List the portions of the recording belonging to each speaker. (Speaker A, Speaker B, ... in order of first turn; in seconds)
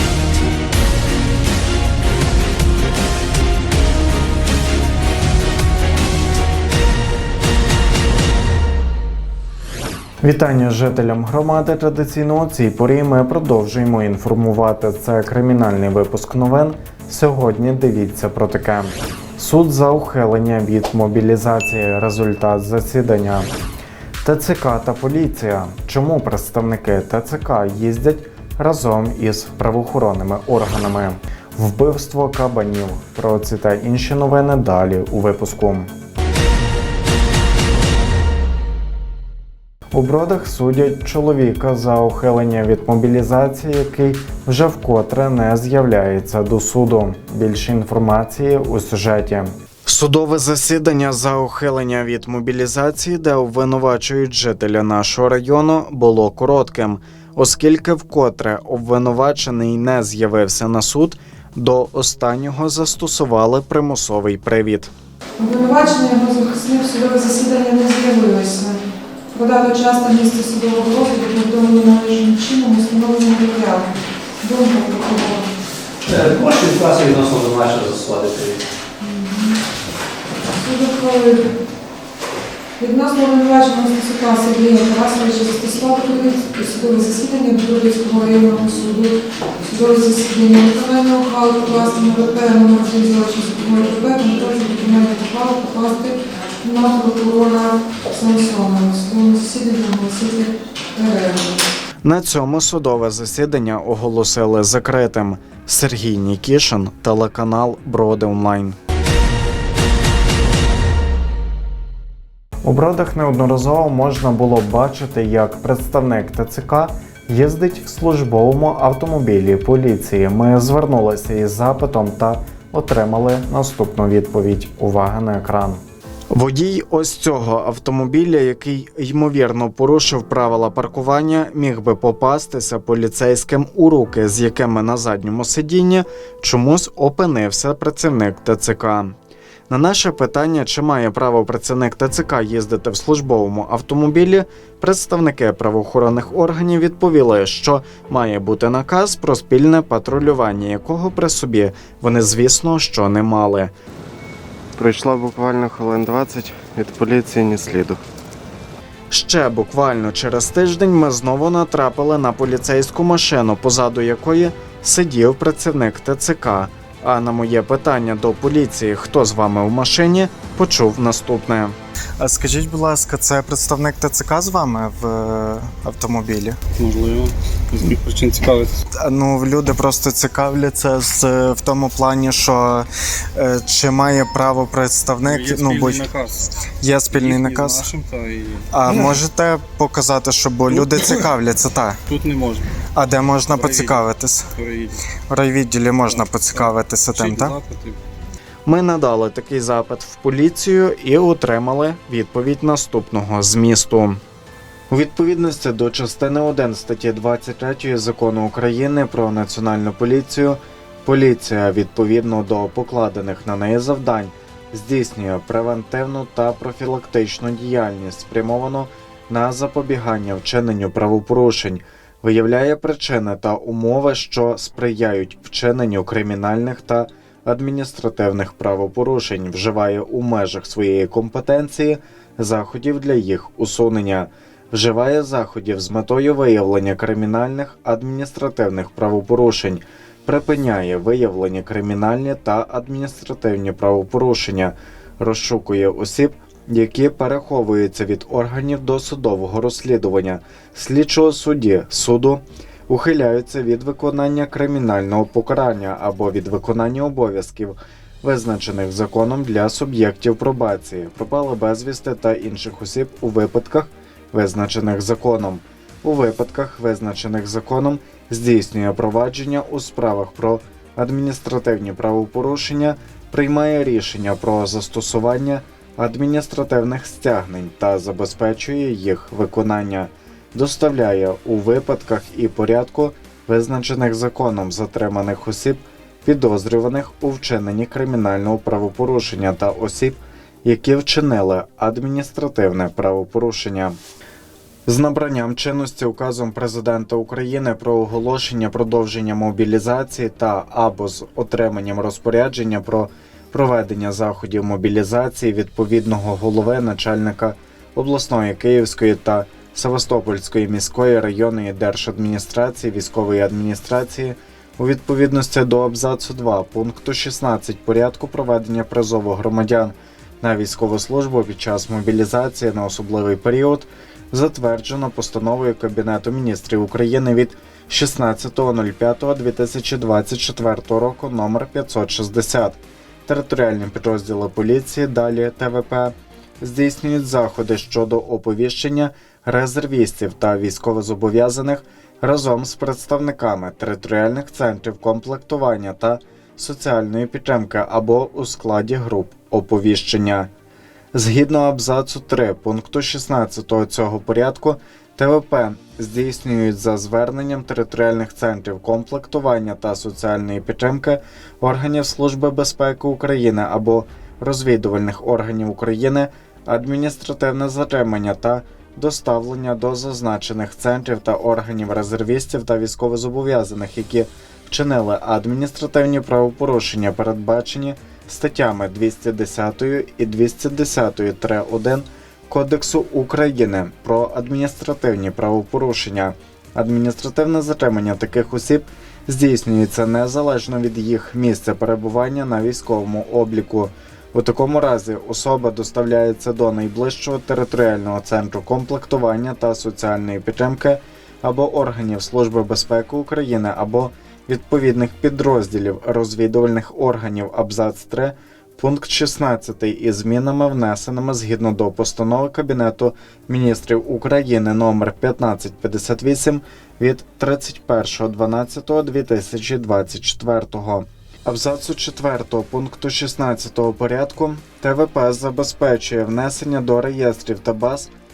Speaker A: 10.2-23.5, 24.2-35.9, 39.9-64.9, 102.0-108.8, 112.6-125.8, 126.3-139.2, 139.7-153.7, 159.1-176.6, 178.9-186.1, 186.8-187.9, 188.7-192.0, 192.9-194.5, 195.3-197.6, 198.7-204.2, 204.9-294.0, 294.9-350.5, 351.1-428.1
Speaker B: 65.4-68.8, 69.3-73.9, 74.4-75.5, 79.0-79.6, 80.5-81.5, 82.8-101.7
Speaker C: 76.1-78.6
Speaker D: 154.8-158.0
Speaker E: 176.8-178.8, 185.2-188.7, 192.1-192.7, 193.4-194.0, 194.6-195.0, 196.1-198.0